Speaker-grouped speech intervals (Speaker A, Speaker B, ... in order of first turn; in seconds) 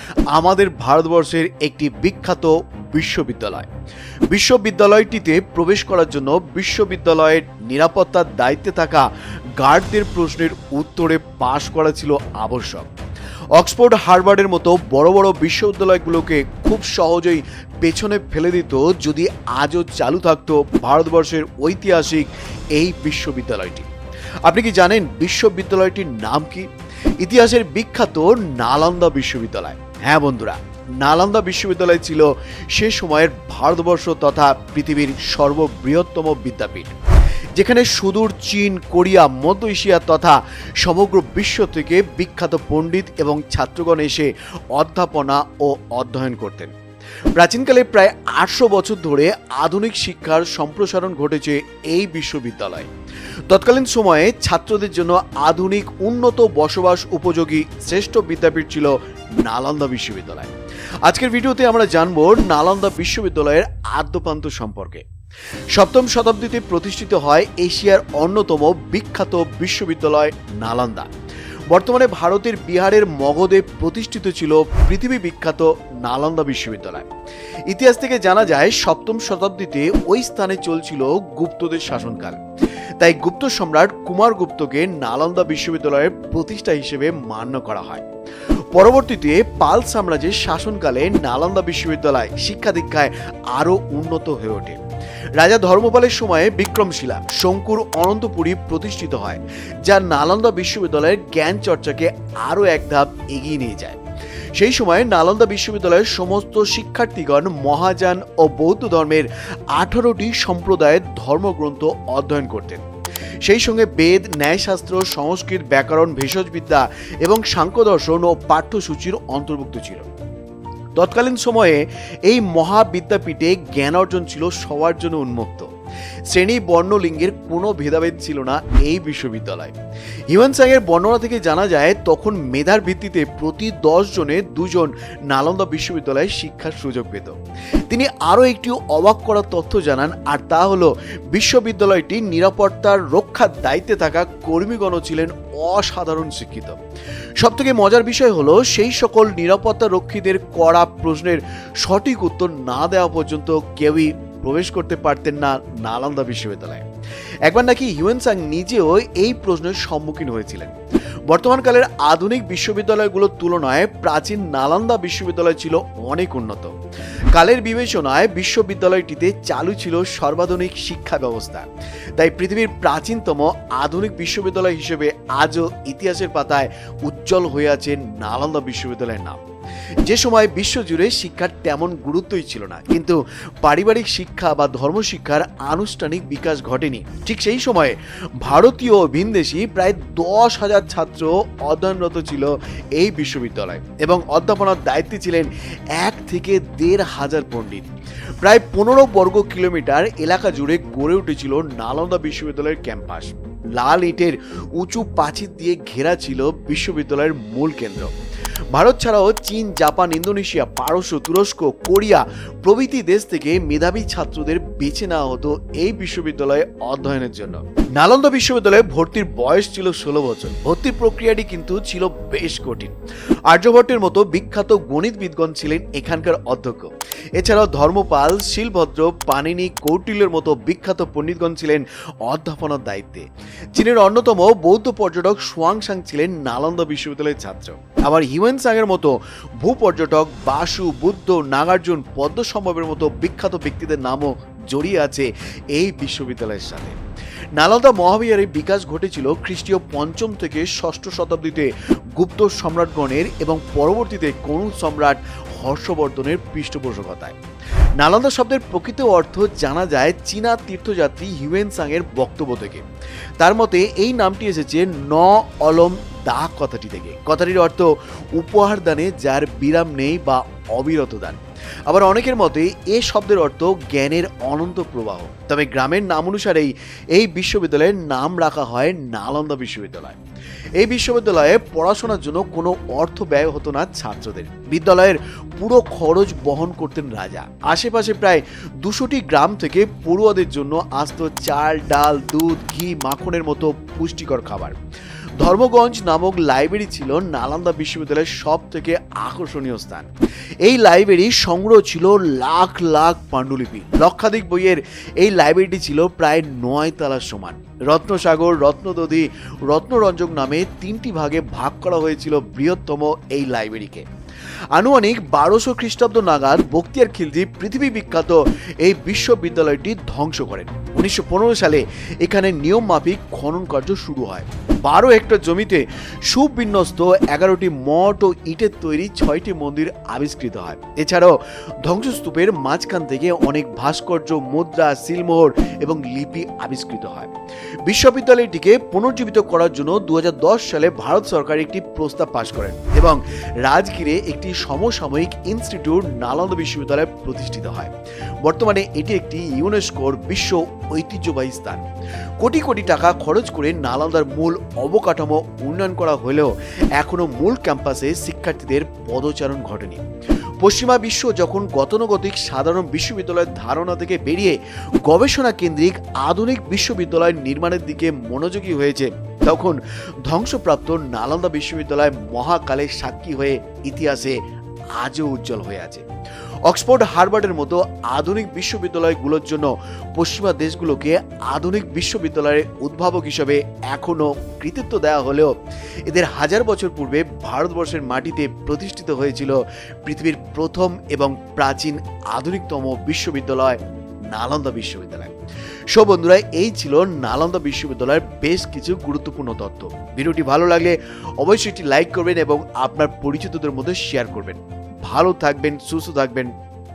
Speaker A: 0.3-3.7, 4.3-9.1, 9.6-12.9, 13.6-23.9, 24.5-26.7, 27.2-37.0, 37.5-46.7, 47.4-52.9, 53.5-60.5, 61.0-65.1, 65.7-71.1, 71.7-77.1, 77.7-82.4, 83.0-88.0, 88.7-94.8, 95.4-104.0, 104.6-112.8, 113.4-120.1, 121.0-125.7, 126.3-129.8, 130.3-137.4, 137.9-146.8, 147.4-156.8, 157.5-160.7, 161.3-166.7, 167.3-179.4, 180.1-197.9, 198.4-208.1, 208.7-222.9, 223.5-247.0, 247.6-257.4, 258.0-262.8, 263.4-280.2, 280.8-294.8, 295.4-300.1, 300.6-314.1, 314.7-337.3, 337.9-347.9, 348.4-351.8, 352.4-360.0, 360.6-374.4, 375.0-376.0, 376.7-385.5, 386.1-393.8, 394.3-395.3, 395.9-406.5